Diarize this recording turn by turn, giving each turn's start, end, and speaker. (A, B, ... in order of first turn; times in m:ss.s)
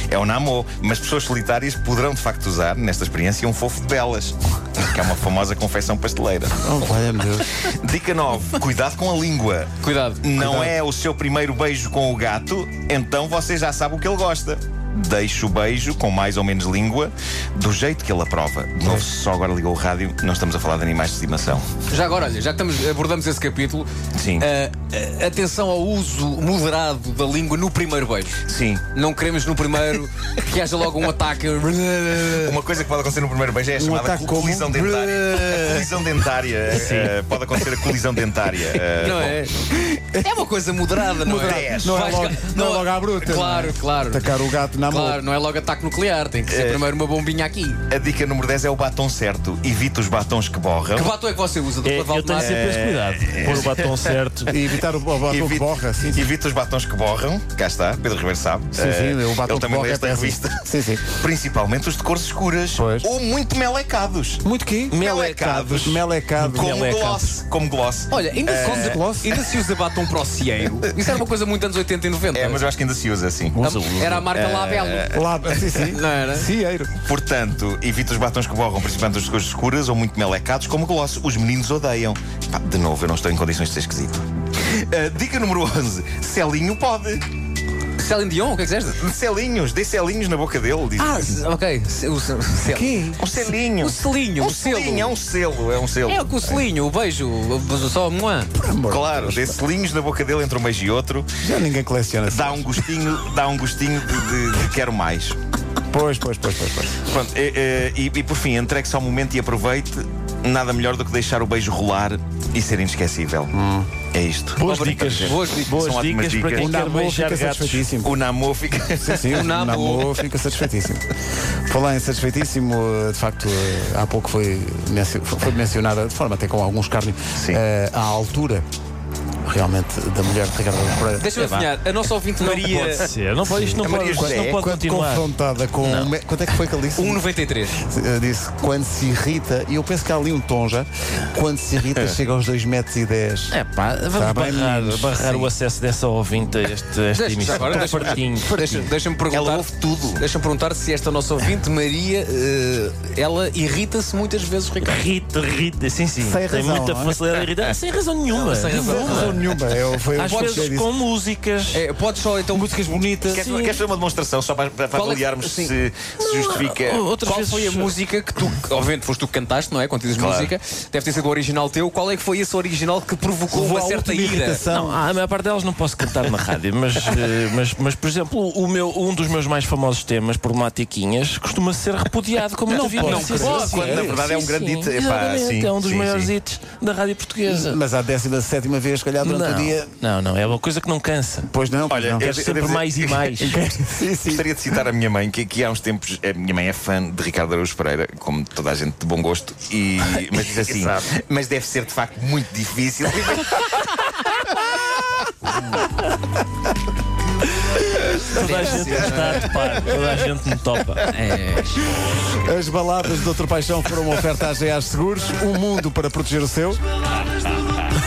0:00.1-0:06.6 A
0:06.6-0:07.5 B
0:07.6-0:21.7 A
0:09.8-0:10.8 C
0:21.9-0:23.9 C
0:24.1-0:24.5 A
0:24.4-0:28.4 C
0:28.5-0:28.9 A
0:28.9-0:32.6 C
0:32.4-0:39.8 A
0:33.8-0:35.3 B
0:35.0-0:35.9 C
0:36.7-0:37.2 D
0:38.9-0:44.3 C
0:41.0-0:45.2 B
0:41.4-0:42.1 A
0:44.9-0:47.8 C
0:46.5-0:46.8 A
0:47.9-0:51.1 A
0:50.9-0:52.6 C
0:51.8-0:54.5 D
0:52.4-0:54.1 A
0:54.5-0:56.3 B
0:55.2-1:09.0 A
0:58.7-1:01.2 B
1:02.8-1:03.1 B
1:04.4-1:07.3 B
1:04.9-1:05.4 D
1:06.4-1:07.2 D
1:08.1-1:12.6 C
1:08.6-1:09.4 B
1:12.3-1:13.6 A
1:13.6-1:15.1 C
1:13.6-1:14.3 D
1:14.4-1:15.2 A
1:15.1-1:16.9 B
1:15.8-1:16.5 C
1:17.0-1:27.2 A
1:28.0-1:29.0 C
1:28.9-1:31.3 A
1:31.0-1:35.2 C
1:32.7-1:33.2 B
1:33.2-1:36.3 A
1:36.1-1:38.5 C
1:38.5-1:39.6 B
1:38.9-1:41.3 A
1:41.4-1:42.9 B
1:42.3-1:45.4 A
1:45.9-1:47.0 B
1:47.0-1:53.5 A
1:53.5-1:53.9 B
1:54.1-1:56.8 A
1:54.6-1:57.9 D
1:54.6-1:55.8 C
1:56.6-1:58.2 B
1:58.0-1:59.6 A
1:59.0-2:01.1 B
1:59.3-2:00.1 C
2:01.7-2:08.6 B
2:07.4-2:07.6 A
2:09.5-2:11.7 B
2:11.2-2:13.1 C
2:12.4-2:15.3 D
2:13.4-2:23.6 B
2:13.8-2:14.6 A
2:15.8-2:16.1 D
2:17.0-2:17.7 C
2:23.5-2:28.9 D
2:24.1-2:25.3 B
2:27.1-2:35.0 C
2:29.3-2:30.2 A
2:34.8-2:39.6 D
2:36.2-2:37.2 B
2:38.3-2:39.5 C
2:38.8-2:41.0 B
2:40.1-2:41.8 D
2:40.2-2:40.7 C
2:41.7-2:42.7 C
2:42.5-2:43.5 B
2:43.3-2:47.1 A
2:43.3-2:43.8 D
2:44.9-2:45.7 C
2:46.2-2:47.9 D
2:47.1-2:54.6 C
2:50.1-2:50.5 A
2:53.5-2:55.1 B
2:54.7-3:07.8 D
3:02.7-3:04.2 B
3:02.8-3:03.9 C
3:03.5-3:06.3 A
3:07.4-3:09.9 B
3:09.2-3:11.5 D
3:11.5-3:12.4 B
3:11.9-3:13.4 A
3:12.2-3:13.6 D
3:13.4-3:14.5 B
3:14.3-3:23.8 A
3:20.4-3:21.0 D
3:28.3-3:31.1 D
3:28.3-3:29.4 C
3:28.3-3:29.4 B
3:31.0-3:32.0 C
3:32.2-3:36.8 B